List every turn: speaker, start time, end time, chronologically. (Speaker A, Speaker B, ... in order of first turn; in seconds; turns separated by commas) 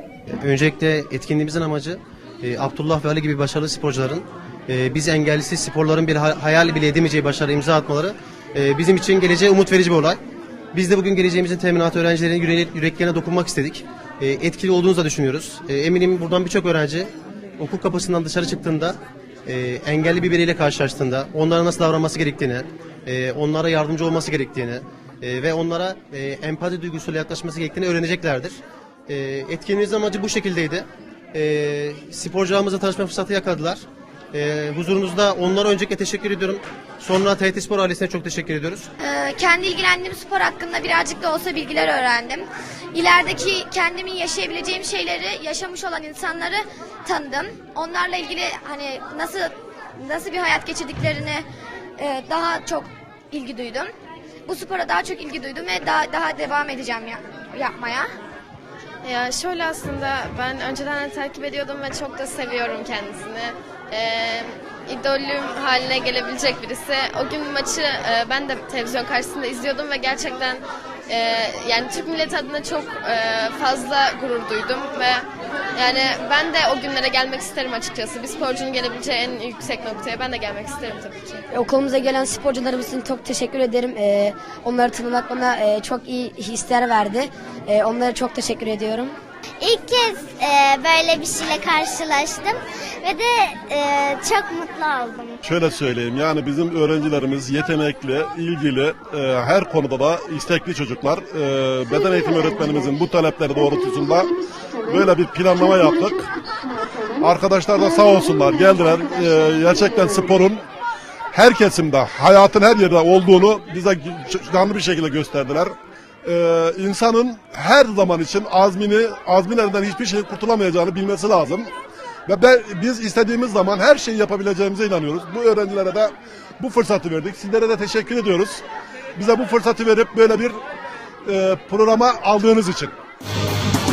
Speaker A: 0.4-10.2, Speaker A: 10.7-38.9, Speaker B: 39.0-51.4, Speaker B: 52.0-53.9, Speaker B: 54.5-58.1, Speaker C: 59.0-81.4, Speaker D: 81.5-89.2, Speaker E: 89.6-95.3, Speaker F: 95.4-104.3, Speaker F: 104.9-106.3, Speaker F: 107.2-110.6, Speaker F: 111.3-115.7, Speaker F: 116.2-121.7, Speaker F: 122.3-128.6, Speaker F: 129.2-130.6, Speaker F: 131.2-132.9